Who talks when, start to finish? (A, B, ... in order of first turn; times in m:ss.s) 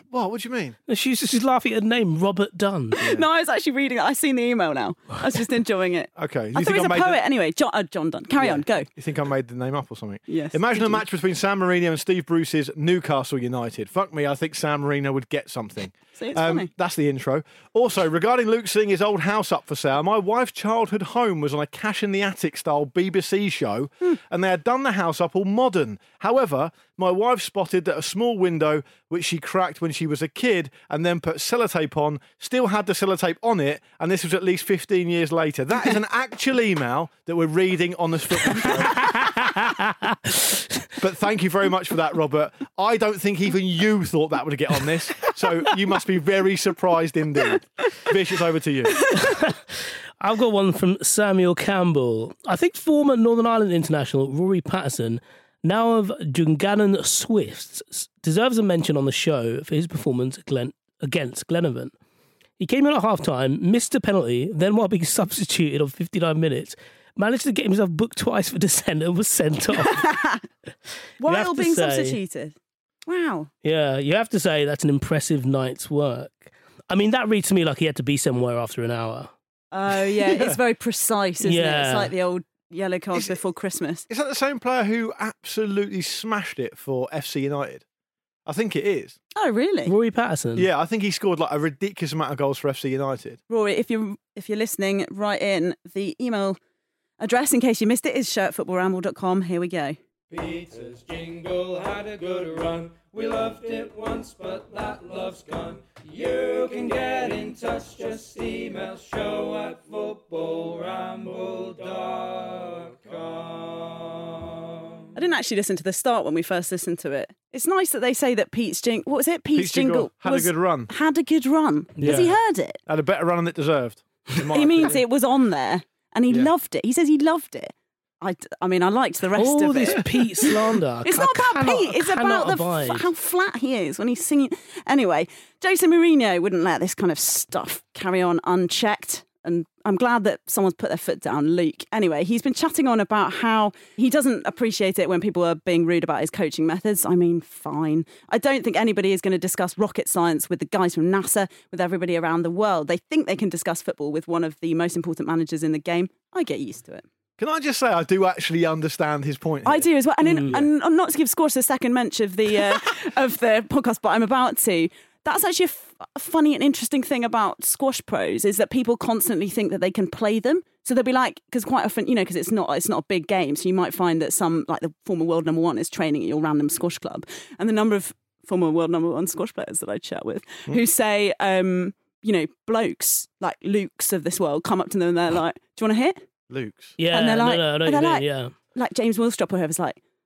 0:00.1-0:00.8 A
0:00.9-0:03.1 B
0:03.0-0:08.9 C
0:06.2-0:07.2 A
0:08.4-0:39.1 A
0:10.3-0:11.0 C
0:16.2-0:16.7 C
0:38.9-0:40.8 B
0:41.0-0:49.2 A
0:49.2-1:01.9 B
1:02.6-1:10.1 B
1:09.8-1:10.4 C
1:11.2-1:13.5 C
1:11.2-1:12.2 B
1:13.6-1:19.3 B
1:19.7-1:24.0 C
1:20.1-1:20.6 A
1:21.4-1:22.1 B
1:24.1-1:27.8 A
1:28.4-1:29.2 A
1:29.4-1:29.9 C
1:29.8-1:30.7 B
1:30.5-1:33.4 A
1:33.5-1:36.6 C
1:37.2-1:40.0 C
1:40.3-1:54.6 D
1:55.1-2:02.8 C
1:59.5-2:00.9 A
2:02.0-2:02.4 A
2:02.9-2:05.0 A
2:04.5-2:10.5 C
2:09.4-2:13.1 B
2:11.0-2:37.0 C
2:37.4-2:39.9 A
2:39.6-3:06.2 C
2:40.2-2:40.6 B
3:06.5-3:07.0 A
3:07.0-3:08.5 B
3:07.1-3:10.0 C